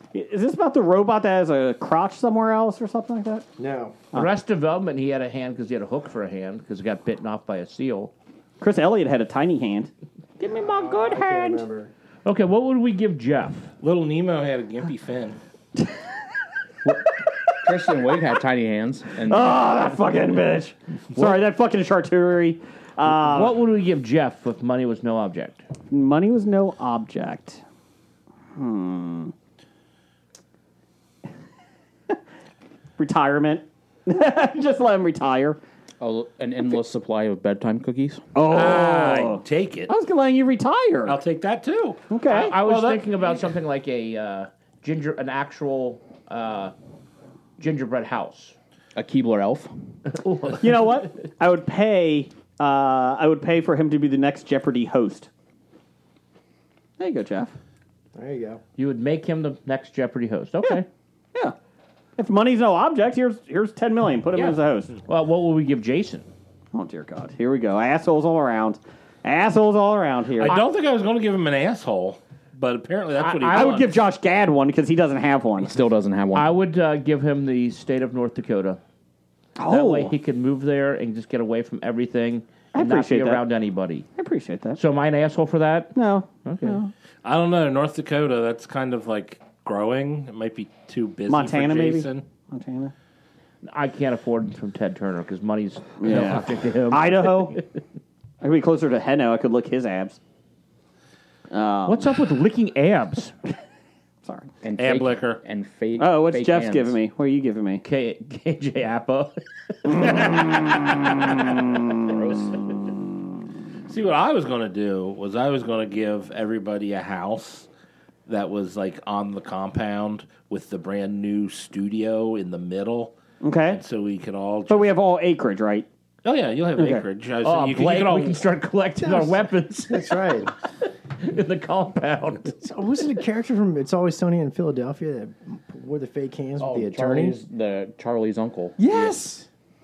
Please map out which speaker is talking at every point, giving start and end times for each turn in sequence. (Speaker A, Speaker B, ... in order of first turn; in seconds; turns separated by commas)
Speaker A: 0.1-3.5, Speaker B: 3.6-4.0, Speaker C: 4.1-8.1, Speaker A: 8.6-11.6, Speaker B: 10.4-11.9, Speaker C: 12.2-13.7, Speaker D: 13.8-15.4, Speaker E: 17.6-19.6, Speaker A: 19.2-23.6, Speaker C: 23.2-25.6, Speaker A: 25.9-27.6, Speaker A: 28.6-29.3, Speaker A: 33.0-35.6, Speaker E: 36.0-38.2, Speaker A: 38.4-41.2, Speaker D: 38.5-39.9, Speaker D: 41.1-43.1, Speaker A: 42.1-42.5, Speaker C: 42.3-46.7, Speaker C: 47.6-48.6, Speaker E: 49.0-49.7, Speaker C: 50.1-51.0, Speaker A: 50.6-55.3, Speaker A: 57.0-57.5, Speaker B: 58.1-58.6, Speaker C: 58.8-60.9, Speaker A: 62.2-65.0, Speaker C: 64.3-66.3, Speaker A: 66.7-70.6, Speaker D: 70.4-73.9, Speaker C: 73.2-73.8, Speaker A: 73.5-75.7, Speaker E: 75.7-76.5, Speaker C: 76.3-78.8, Speaker A: 79.6-80.1, Speaker C: 79.7-84.1, Speaker A: 82.7-83.4, Speaker A: 84.2-84.8, Speaker C: 84.8-86.8, Speaker A: 86.0-86.9, Speaker D: 87.2-92.2, Speaker A: 91.3-92.9, Speaker C: 93.6-97.6, Speaker A: 96.0-97.6, Speaker A: 98.4-100.2, Speaker A: 101.5-102.2, Speaker C: 101.9-103.3, Speaker E: 104.6-107.0, Speaker D: 104.8-105.4, Speaker A: 106.0-107.8, Speaker C: 107.8-110.2, Speaker A: 110.0-111.8, Speaker D: 113.9-117.7, Speaker D: 118.3-123.2, Speaker A: 123.4-123.8, Speaker D: 123.7-125.0, Speaker A: 124.7-125.9, Speaker D: 126.2-128.4, Speaker A: 126.8-127.0, Speaker C: 127.4-130.3, Speaker B: 129.0-130.5, Speaker C: 131.2-132.6, Speaker B: 132.6-137.4, Speaker E: 136.6-138.8, Speaker B: 138.8-139.5